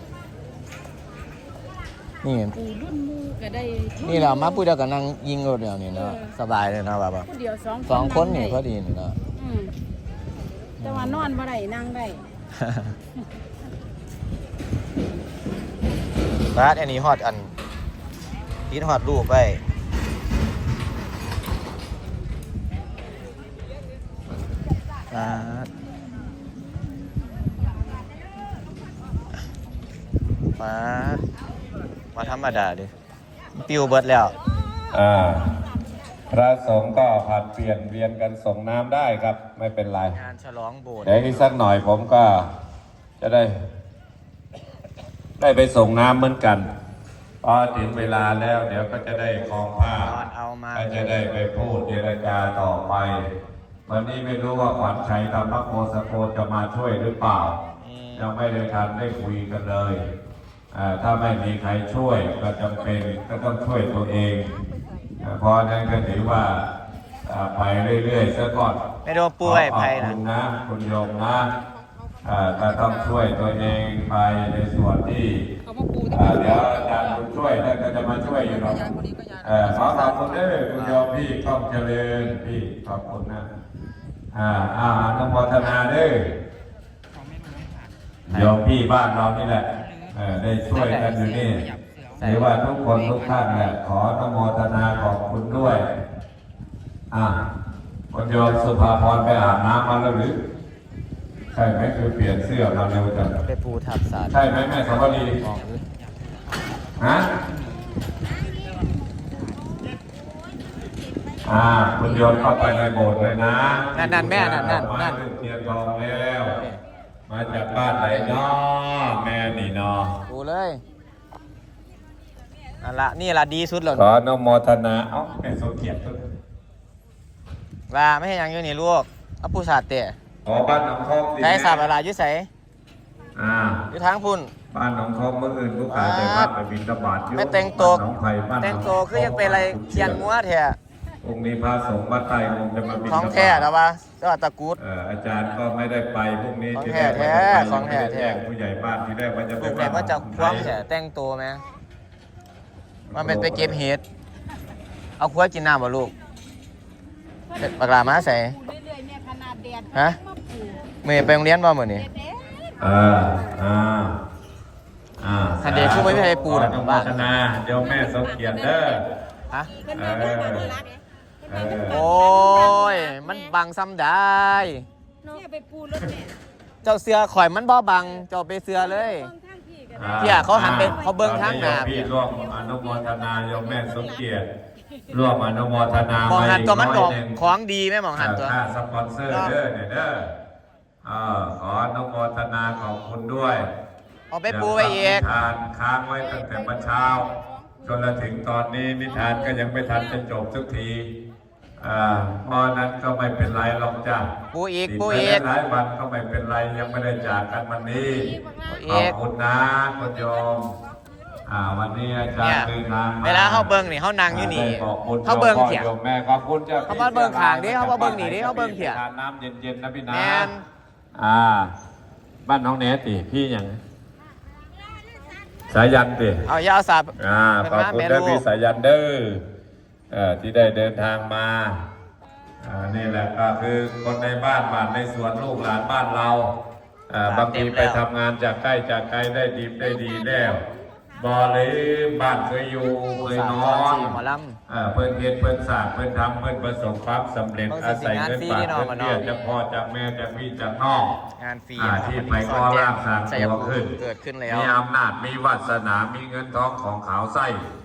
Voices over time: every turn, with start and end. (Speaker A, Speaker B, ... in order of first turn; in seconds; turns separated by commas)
Speaker A: 2.2-2.7, Speaker B: 2.9-3.9, Speaker A: 4.0-9.2, Speaker B: 7.4-7.8, Speaker A: 10.8-11.4, Speaker B: 11.4-12.2, Speaker A: 12.6-12.9, Speaker A: 16.5-17.5, Speaker A: 18.7-19.6, Speaker A: 25.1-25.7, Speaker A: 30.6-31.2, Speaker A: 32.1-32.9, Speaker A: 33.5-34.3, Speaker C: 34.9-35.5, Speaker C: 36.3-40.2, Speaker A: 40.1-41.5, Speaker C: 41.0-42.5, Speaker C: 43.2-43.5, Speaker C: 45.4-46.7, Speaker C: 47.4-50.2, Speaker A: 50.0-51.3, Speaker C: 50.7-53.2, Speaker C: 53.9-57.6, Speaker A: 57.8-58.3, Speaker C: 58.2-60.0, Speaker C: 60.7-64.5, Speaker C: 65.2-66.6, Speaker C: 67.3-68.8, Speaker A: 69.0-70.2, Speaker C: 69.4-71.5, Speaker C: 72.2-75.5, Speaker C: 76.0-83.5, Speaker A: 79.8-81.0, Speaker C: 84.3-86.3, Speaker C: 88.3-91.7, Speaker A: 90.7-91.4, Speaker A: 92.2-92.5, Speaker C: 92.2-95.9, Speaker C: 97.1-97.4, Speaker C: 98.1-100.4, Speaker C: 101.5-103.3, Speaker A: 103.4-105.8, Speaker C: 104.3-105.4, Speaker C: 107.0-107.3, Speaker C: 111.5-116.6, Speaker A: 113.9-115.2, Speaker A: 116.5-116.8, Speaker C: 117.3-120.2, Speaker A: 117.7-118.4, Speaker A: 120.3-120.8, Speaker A: 122.8-124.1, Speaker C: 123.9-126.3, Speaker A: 127.9-130.2, Speaker C: 130.4-131.9, Speaker A: 131.4-132.5, Speaker C: 133.3-133.8, Speaker A: 133.9-134.5, Speaker C: 134.7-140.3, Speaker A: 135.9-136.5, Speaker A: 137.3-138.0, Speaker A: 138.6-140.8, Speaker C: 141.2-143.7, Speaker A: 143.0-144.8, Speaker C: 144.8-150.8, Speaker A: 146.7-148.4, Speaker A: 149.6-151.6, Speaker C: 153.1-153.8, Speaker A: 153.1-154.0, Speaker A: 155.2-156.1, Speaker A: 157.5-158.6, Speaker B: 159.3-159.6, Speaker A: 159.9-160.2, Speaker A: 161.0-162.1, Speaker C: 162.8-164.2, Speaker C: 165.2-169.1, Speaker A: 165.6-167.3, Speaker A: 169.5-169.8, Speaker C: 169.9-170.8, Speaker C: 171.5-172.1, Speaker A: 171.8-174.9, Speaker A: 176.8-179.3, Speaker C: 179.9-184.5, Speaker A: 180.2-182.1, Speaker C: 185.1-187.4, Speaker A: 186.2-188.6, Speaker C: 188.2-190.3, Speaker A: 189.3-189.6, Speaker C: 191.0-193.7, Speaker A: 194.3-195.3, Speaker C: 194.5-201.1, Speaker C: 201.8-204.3, Speaker A: 204.5-205.5, Speaker C: 204.9-210.7, Speaker A: 208.7-209.2, Speaker C: 211.5-220.5, Speaker A: 212.4-215.9, Speaker A: 216.9-219.0, Speaker A: 220.1-220.6, Speaker C: 221.2-221.7, Speaker C: 222.5-223.8, Speaker C: 225.7-226.5, Speaker A: 226.4-228.4, Speaker C: 227.2-229.4, Speaker C: 230.1-231.8, Speaker C: 232.6-236.5, Speaker C: 237.1-240.6, Speaker A: 237.2-238.0, Speaker C: 241.2-251.2, Speaker A: 243.2-244.6, Speaker A: 247.7-249.3, Speaker A: 251.4-254.7, Speaker C: 251.8-257.6